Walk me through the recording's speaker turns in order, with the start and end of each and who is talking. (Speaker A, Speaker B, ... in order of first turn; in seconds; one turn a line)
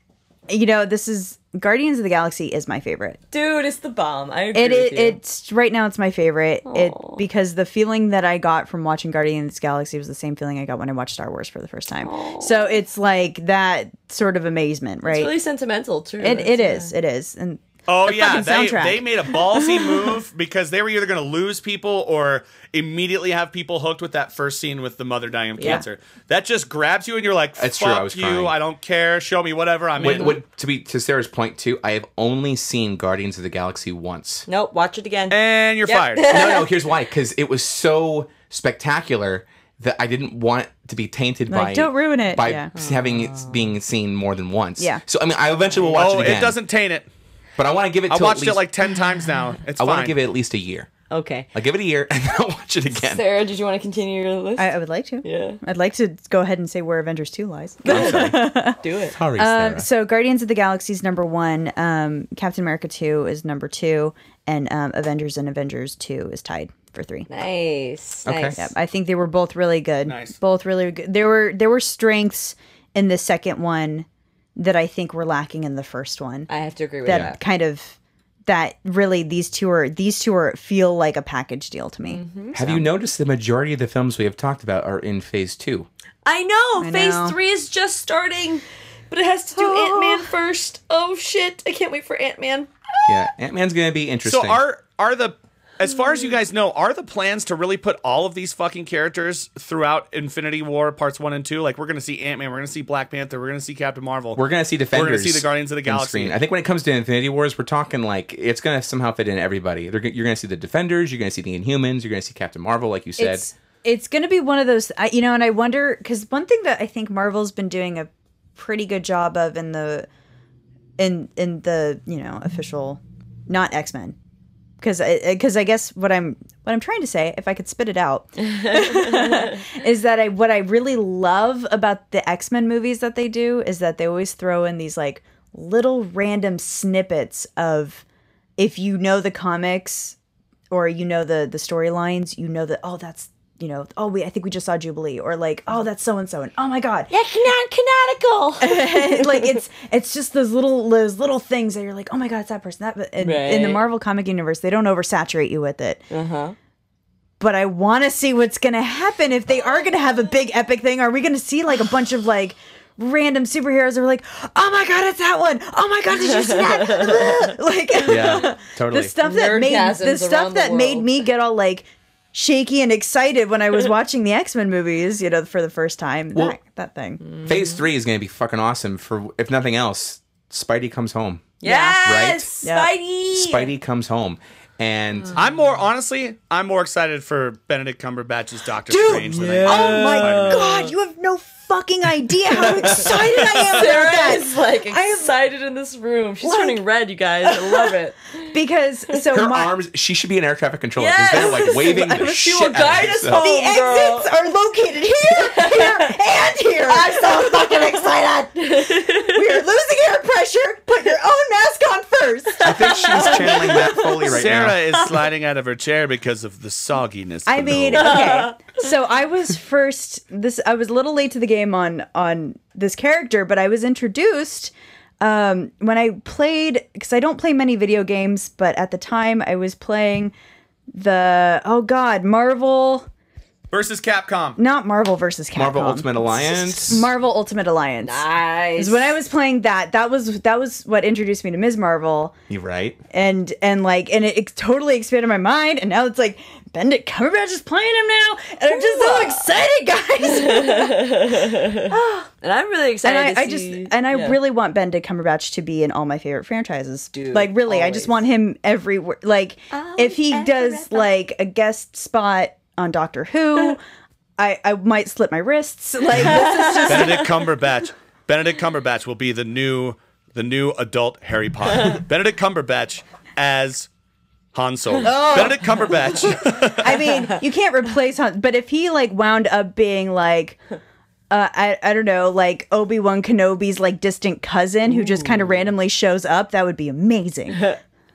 Speaker A: 0.5-3.2
Speaker B: 3.3-5.2
Speaker A: 4.5-15.4
Speaker B: 6.7-7.2
Speaker B: 12.0-12.8
Speaker B: 15.0-16.9
Speaker A: 16.2-19.9
Speaker C: 17.9-30.4
Speaker B: 25.6-25.8
Speaker A: 25.6-25.9
Speaker D: 27.6-28.6
Speaker D: 30.0-34.5
Speaker B: 30.0-30.4
Speaker B: 34.5-36.7
Speaker C: 35.3-36.3
Speaker D: 36.3-46.6
Speaker A: 41.5-42.7
Speaker B: 42.7-43.7
Speaker C: 45.9-47.1
Speaker D: 47.6-48.6
Speaker C: 48.1-50.2
Speaker D: 49.8-50.9
Speaker B: 51.1-51.5
Speaker D: 51.5-53.2
Speaker B: 52.9-55.6
Speaker A: 54.6-58.8
Speaker B: 57.8-59.2
Speaker D: 57.9-58.5
Speaker D: 59.1-59.9
Speaker A: 59.4-67.3
Speaker B: 67.3-68.7
Speaker D: 68.3-68.6
Speaker A: 68.6-76.5
Speaker C: 70.1-70.4
Speaker B: 76.5-77.4
Speaker A: 77.0-82.2
Speaker D: 77.1-77.3
Speaker B: 82.0-82.8
Speaker D: 82.5-85.9
Speaker B: 86.2-93.3
Speaker A: 86.8-87.4
Speaker A: 89.6-90.3
Speaker D: 93.1-94.6
Speaker C: 94.2-104.4
Speaker D: 104.3-113.5
Speaker C: 104.9-106.4
Speaker A: 113.2-120.1
Speaker A: 121.0-124.2
Speaker A: 124.8-138.0
Speaker B: 128.5-129.6
Speaker A: 138.6-140.2
Speaker A: 140.7-147.1
Speaker B: 147.1-149.6
Speaker A: 148.6-156.1
Speaker B: 153.2-153.8
Speaker B: 156.1-156.6
Speaker A: 157.4-177.2
Speaker B: 166.2-167.4
Speaker D: 168.1-169.2
Speaker B: 168.1-168.4
Speaker B: 169.2-171.1
Speaker D: 176.3-176.6
Speaker B: 177.2-177.8
Speaker D: 177.4-182.5
Speaker B: 181.6-183.7
Speaker A: 181.7-182.0
Speaker A: 182.6-182.9
Speaker D: 183.3-185.4
Speaker C: 185.3-190.8
Speaker A: 188.9-195.3
Speaker B: 189.1-190.9
Speaker B: 192.5-198.5
Speaker A: 196.4-196.8
Speaker A: 197.4-197.9
Speaker A: 198.5-199.8
Speaker D: 199.3-203.5
Speaker B: 201.0-204.3
Speaker A: 201.3-202.3
Speaker A: 203.3-214.3
Speaker B: 205.3-206.2
Speaker B: 206.8-209.6
Speaker D: 212.6-215.0
Speaker B: 212.6-214.2
Speaker C: 214.0-218.3
Speaker A: 217.5-230.3
Speaker B: 217.9-218.6
Speaker A: 230.9-233.1
Speaker C: 233.7-234.6
Speaker A: 234.6-242.3
Speaker D: 235.5-237.1
Speaker B: 238.0-239.2
Speaker D: 242.5-243.0
Speaker A: 243.1-252.3
Speaker B: 248.7-249.5
Speaker B: 250.2-254.4
Speaker A: 253.0-263.8
Speaker B: 257.1-258.2
Speaker B: 259.7-261.1
Speaker A: 264.4-267.4
Speaker B: 266.3-267.1
Speaker C: 266.9-273.9
Speaker C: 274.5-277.0
Speaker A: 275.0-280.6
Speaker B: 275.2-275.5
Speaker A: 281.3-287.8
Speaker B: 284.9-285.6